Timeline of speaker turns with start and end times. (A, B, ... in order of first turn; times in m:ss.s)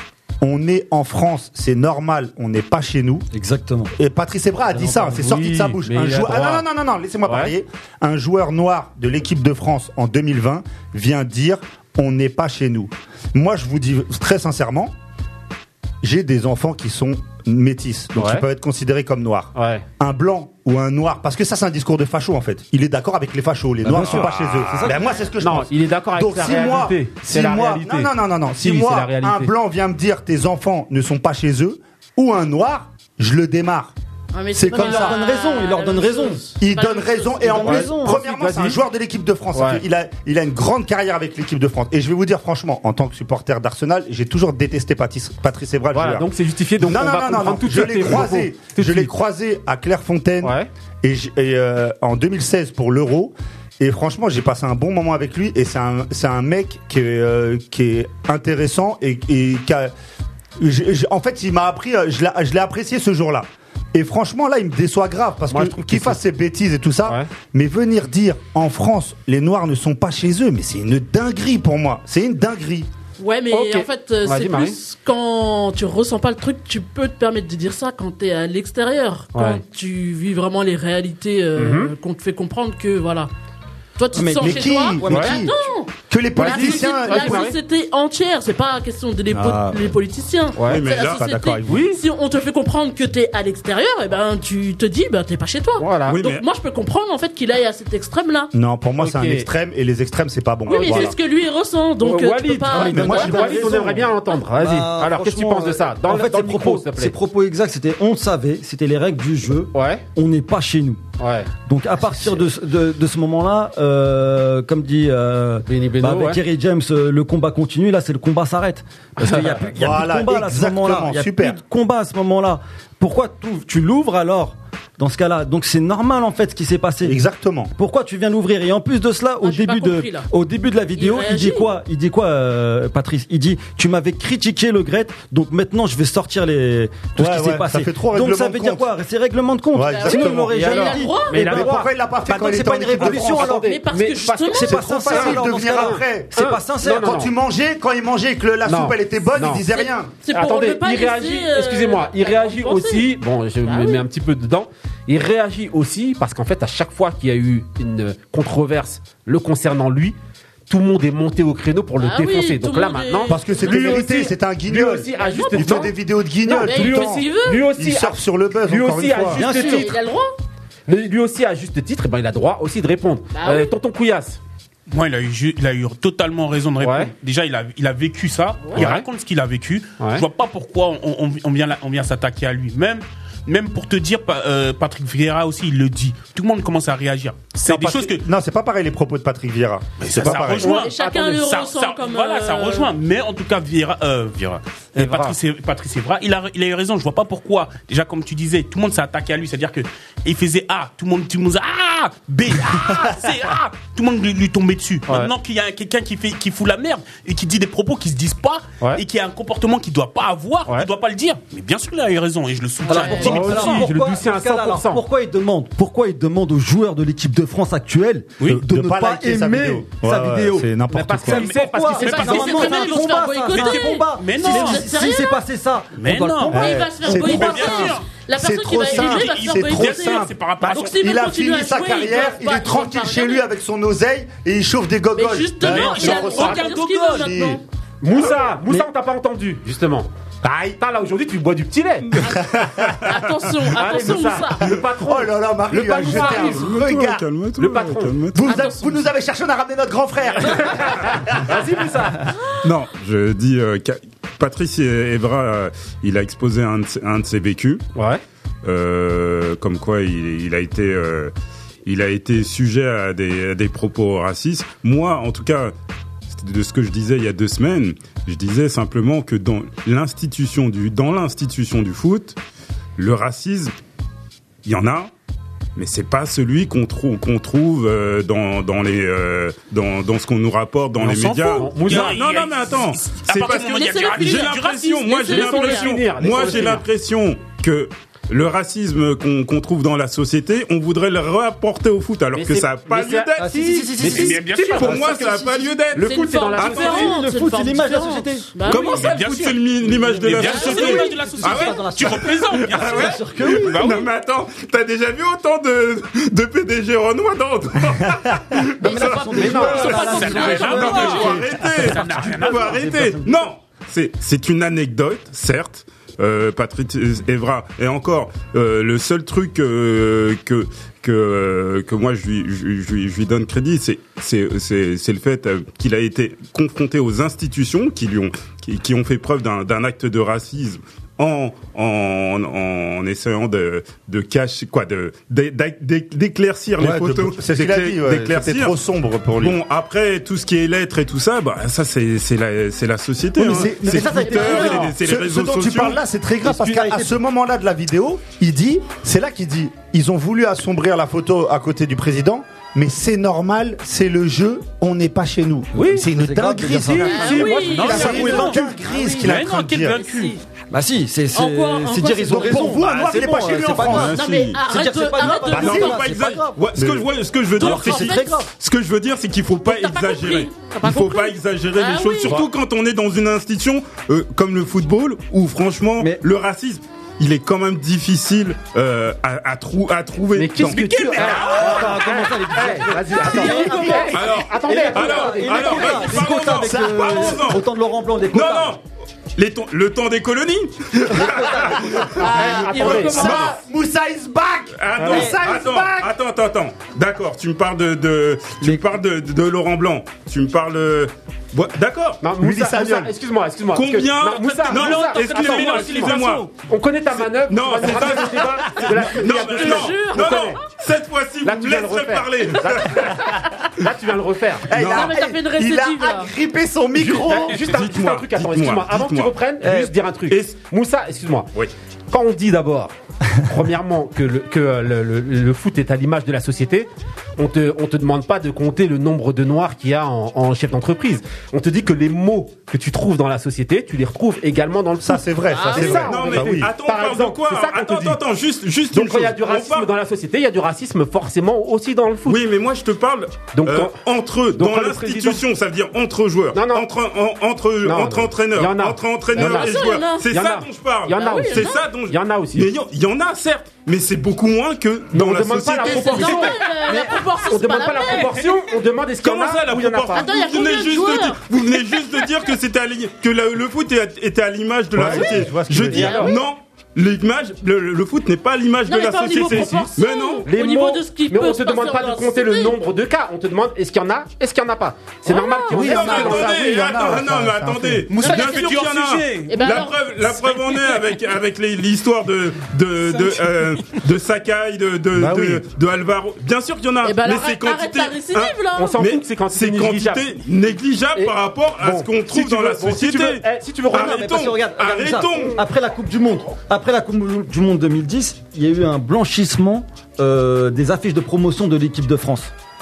0:00.4-0:03.2 A
0:03.3-0:03.9 B
0:04.0-0:14.9 A
0:04.8-0:06.6 C
0:07.2-0:07.5 C
0:16.0-0:33.9 A
0:18.1-0:18.4 C
0:19.5-0:19.8 C
0:23.8-0:25.0 B
0:23.9-0:24.2 C
0:25.4-0:28.1 C
0:28.6-0:29.5 C
0:34.3-0:37.7 D
0:34.5-0:35.2 A
0:34.7-0:36.5 B
0:36.6-0:59.9 A
0:37.4-0:38.2 B
0:37.6-0:38.8 C
0:39.5-0:39.8 C
0:45.9-0:49.1 C
0:50.4-0:50.7 C
1:00.6-1:12.9 A
1:05.5-1:06.2 C
1:13.2-1:23.3 D
1:13.5-1:14.8 C
1:19.3-1:19.6 C
1:21.6-1:21.9 C
1:24.0-1:38.5 D
1:24.1-1:25.5 B
1:24.4-1:25.5 A
1:25.1-1:25.4 C
1:26.1-1:27.5 A
1:26.4-1:27.6 C
1:29.3-1:30.0 A
1:30.6-1:30.8 C
1:30.7-1:31.3 E
1:30.9-1:31.9 A
1:31.6-1:32.0 C
1:35.8-1:36.2 C
1:36.1-1:36.4 E
1:38.5-1:41.2 A
1:39.0-1:39.5 C
1:40.7-1:41.1 C
1:40.7-1:43.8 D
1:42.0-1:47.2 C
1:42.7-1:51.0 B
1:42.9-1:44.0 A
1:49.7-1:50.0 C
1:51.2-1:52.4 C
1:51.6-2:07.2 B
1:55.7-1:56.4 C
1:59.2-1:59.6 C
1:59.6-2:01.6 A
2:07.0-2:07.7 A
2:07.8-2:23.7 B
2:09.4-2:10.3 D
2:11.0-2:11.7 D
2:17.2-2:18.8 A
2:19.7-2:23.5 A
2:19.9-2:21.5 D
2:20.5-2:21.9 C
2:23.0-2:27.3 C
2:23.2-2:24.8 D
2:24.5-2:27.2 B
2:24.6-2:26.3 A
2:26.8-2:30.1 A
2:28.6-2:29.6 C
2:29.7-2:33.1 D
2:30.3-2:40.2 C
2:33.6-2:34.0 D
2:40.7-2:50.0 C
2:42.0-2:44.3 D
2:43.3-2:49.4 A
2:45.1-2:45.9 D
2:46.6-2:47.6 D
2:49.3-2:50.3 D
2:49.4-2:49.9 B
2:50.9-2:54.4 C
2:53.3-2:53.7 D
2:54.9-3:08.2 F
2:56.8-2:57.1 C
2:58.8-2:59.0 C
3:07.7-3:10.7 A
3:10.0-3:33.8 F
3:10.2-3:11.3 C
3:10.7-3:12.9 D
3:15.0-3:15.3 C
3:32.8-3:46.8 B
3:32.9-3:33.9 D
3:33.2-3:35.0 C
3:38.5-3:41.5 A
3:40.9-3:43.1 C
3:41.3-3:44.9 F
3:42.0-3:45.4 D
3:46.0-3:48.0 F
3:46.5-3:53.5 D
3:46.5-3:57.6 A
3:48.8-3:51.0 F
3:55.1-3:57.6 D
3:55.6-3:57.4 F
3:58.0-4:00.1 C
3:58.2-3:58.8 A
4:00.4-4:00.8 A
4:00.8-4:02.2 C
4:02.4-4:03.2 A
4:03.0-4:04.8 D
4:03.7-4:06.7 C
4:05.0-4:07.2 A
4:06.0-4:06.5 D
4:06.5-4:08.6 E
4:07.6-4:08.2 C
4:08.3-4:11.6 A
4:08.4-4:09.0 D
4:10.5-4:12.2 C
4:12.6-4:17.8 E
4:17.9-4:18.2 C
4:18.6-4:21.3 E
4:21.8-4:25.7 E
4:26.3-4:32.4 E
4:33.0-4:33.7 E
4:34.6-4:35.1 E
4:35.8-4:53.4 E
4:41.0-4:45.2 F
4:41.6-4:42.2 C
4:43.4-4:46.0 D
4:45.3-4:46.8 C
4:52.3-4:57.2 C
4:53.4-4:54.4 B
4:54.0-4:54.9 F
4:54.8-4:57.0 E
4:56.0-4:59.2 D
4:56.8-4:58.9 B
4:58.7-5:04.1 F
4:58.7-5:10.1 E
4:59.8-5:01.3 D
5:01.2-5:03.8 B
5:08.8-5:11.5 D
5:08.8-5:13.5 B
5:09.4-5:10.3 C
5:10.0-5:12.8 F
5:10.6-5:38.8 E
5:36.8-5:39.6 A
5:39.4-5:46.0 E
5:43.4-6:00.0 A
5:44.3-5:44.9 D
5:46.4-5:47.1 B
5:46.6-5:47.0 C
5:55.7-5:58.7 B
5:55.8-5:56.0 C
5:57.0-6:00.4 D
5:57.3-5:58.2 C
5:57.8-6:00.4 F
6:00.7-6:06.7 B
6:01.3-6:02.8 D
6:02.3-6:04.2 A
6:03.8-6:04.6 E
6:04.1-6:06.1 D
6:05.5-6:06.0 A
6:05.6-6:21.4 E
6:06.8-6:07.1 A
6:07.5-6:08.5 D
6:07.6-6:08.5 B
6:09.6-6:12.4 D
6:20.4-6:26.3 C
6:20.6-6:22.0 F
6:21.3-6:28.8 B
6:23.4-6:24.1 D
6:24.1-6:27.6 E
6:26.5-6:27.5 A
6:28.3-6:28.8 E
6:29.4-6:32.2 E
6:31.2-6:31.8 B
6:31.7-6:36.1 A
6:32.2-6:33.6 D
6:32.2-6:33.5 C
6:33.0-6:33.5 E
6:34.8-6:42.2 E
6:35.1-6:35.4 B
6:42.2-6:50.6 C
6:42.4-6:43.1 A
6:43.7-6:46.5 E
6:44.6-6:46.5 F
6:47.4-6:53.1 E
6:49.2-6:50.7 D
6:51.4-6:53.2 C
6:53.8-6:54.7 C
6:54.7-6:57.6 A
6:54.7-6:55.1 E
6:54.8-6:56.3 D
6:57.0-7:01.5 C
6:57.6-7:00.6 E
7:02.1-7:18.2 C
7:15.0-7:16.7 A
7:15.5-7:16.4 D
7:15.8-7:19.9 E
7:18.9-7:22.4 C
7:22.2-7:36.6 E
7:23.5-7:24.0 C
7:24.5-7:25.4 C
7:26.5-7:26.9 C
7:27.8-7:32.7 C
7:29.3-7:30.3 D
7:31.1-7:31.8 D
7:35.1-7:40.3 C
7:35.7-7:38.4 D
7:39.2-7:50.4 E
7:40.1-7:41.4 D
7:44.9-7:46.3 A
7:45.1-7:46.4 C
7:48.8-7:52.8 D
7:49.5-7:49.8 C
7:50.4-7:56.9 C
7:55.3-7:56.3 D
7:55.7-7:58.1 A
7:55.7-8:15.6 E
7:58.1-7:59.7 F
7:58.2-7:58.6 D
7:59.5-8:00.0 D
8:05.1-8:05.6 C
8:07.0-8:09.0 D
8:08.7-8:10.2 C
8:11.2-8:14.4 C
8:13.9-8:22.5 B